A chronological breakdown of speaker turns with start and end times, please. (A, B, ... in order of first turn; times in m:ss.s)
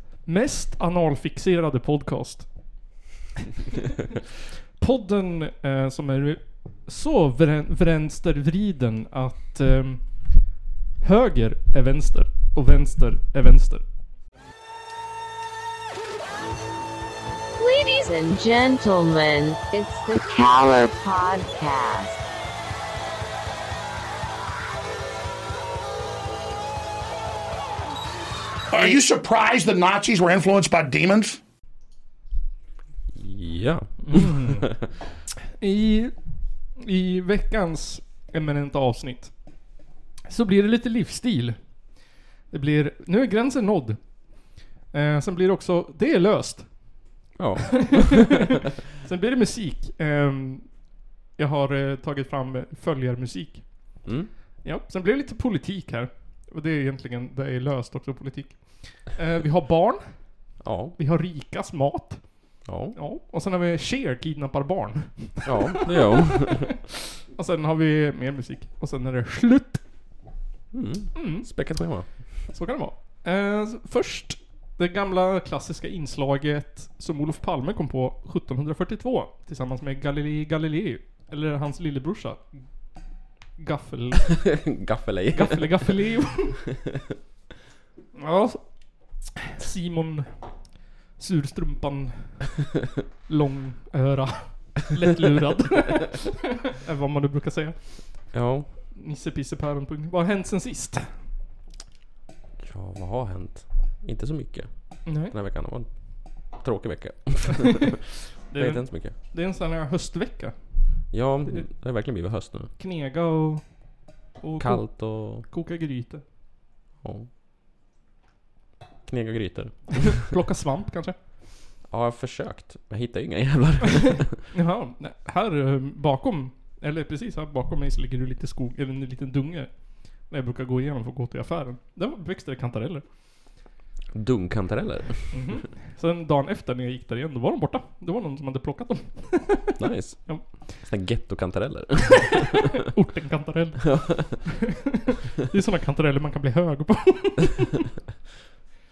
0:00.2-0:02.9 A
0:04.8-0:13.9 A
0:17.6-0:22.2 B
0:28.7-0:31.4 C
0:33.1-0:34.6 D
0:34.0-0:34.8 A
0:35.6-0:47.3 A
0:47.3-0:48.5 D
0:47.8-0:48.2 A
0:49.0-1:06.5 A
0:54.0-0:54.3 D
1:00.6-1:01.0 D
1:02.6-1:03.0 D
1:05.4-1:06.7 D
1:07.3-1:10.2 A
1:10.7-1:12.5 D
1:11.1-1:24.6 A
1:24.4-1:26.0 D
1:25.3-1:26.6 A
1:28.1-1:32.7 A
1:33.2-1:41.3 A
1:38.3-1:38.7 D
1:42.6-1:47.8 D
1:45.0-1:45.3 A
1:48.5-1:56.2 A
1:48.5-1:49.2 D
1:51.1-1:52.7 D
1:54.6-1:55.5 D
1:57.0-1:57.3 D
1:59.0-2:00.2 D
2:00.1-2:01.2 A
2:01.9-2:04.4 D
2:04.5-2:13.6 A
2:14.1-2:15.6 D
2:15.3-2:19.7 A
2:19.8-2:22.5 D
2:20.2-2:20.8 A
2:22.9-2:24.5 A
2:23.9-2:24.4 D
2:25.4-2:27.8 A